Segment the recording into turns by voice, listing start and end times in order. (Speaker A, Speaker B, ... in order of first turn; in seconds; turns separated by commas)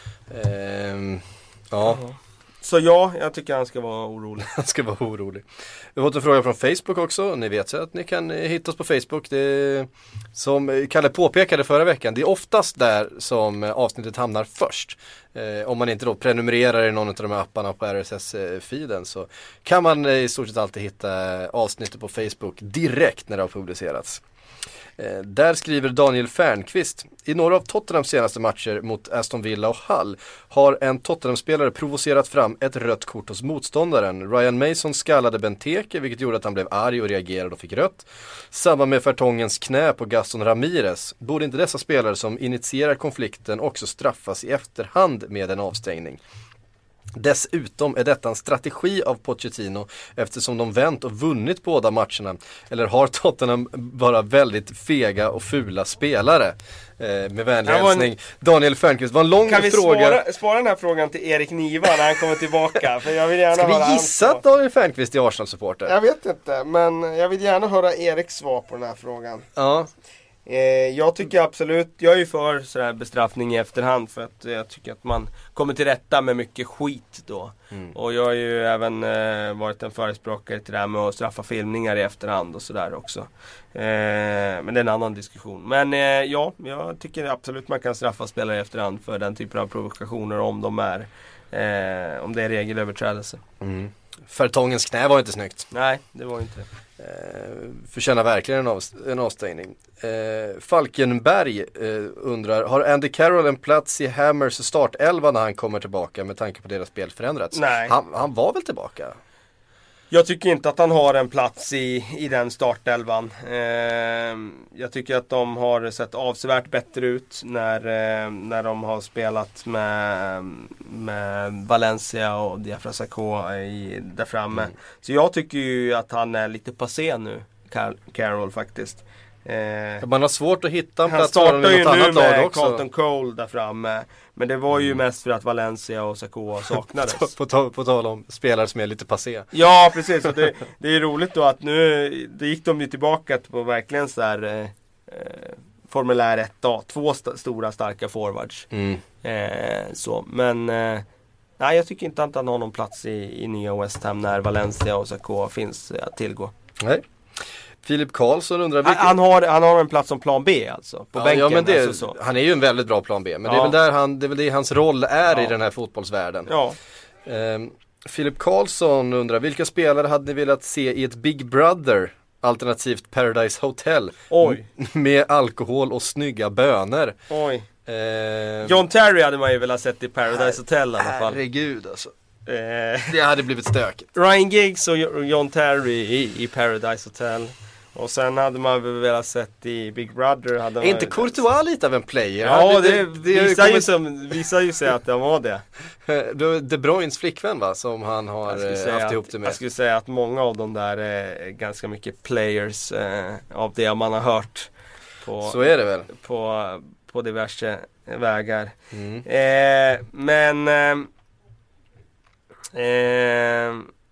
Speaker A: 0.3-2.0, Speaker B: 1.8-4.5, Speaker A: 4.4-24.2, Speaker A: 25.0-46.2, Speaker A: 47.1-60.2, Speaker B: 57.6-58.1, Speaker B: 59.4-64.4, Speaker A: 63.5-65.9, Speaker B: 65.8-69.5, Speaker A: 69.5-69.9, Speaker B: 70.5-93.4, Speaker A: 93.6-95.7, Speaker B: 95.7-96.7, Speaker A: 97.0-109.1, Speaker B: 107.5-108.0, Speaker B: 110.1-130.0, Speaker A: 130.0-132.8, Speaker B: 131.1-137.3, Speaker A: 136.8-139.5, Speaker B: 139.5-148.7, Speaker A: 148.7-149.0, Speaker B: 149.2-151.0, Speaker B: 151.6-156.5, Speaker A: 157.8-159.2, Speaker B: 158.8-162.2, Speaker A: 161.1-166.5, Speaker B: 163.4-163.8, Speaker B: 166.5-166.8, Speaker A: 167.2-177.2, Speaker B: 174.3-174.7, Speaker B: 177.3-177.7, Speaker A: 177.8-178.8, Speaker B: 178.6-181.4, Speaker A: 180.3-182.1, Speaker B: 182.4-183.2, Speaker A: 183.1-184.1, Speaker B: 184.1-191.4, Speaker A: 190.8-193.9, Speaker B: 192.4-195.6, Speaker A: 196.0-199.6, Speaker B: 198.5-211.1, Speaker A: 205.4-206.1, Speaker A: 208.9-209.2, Speaker B: 212.7-213.9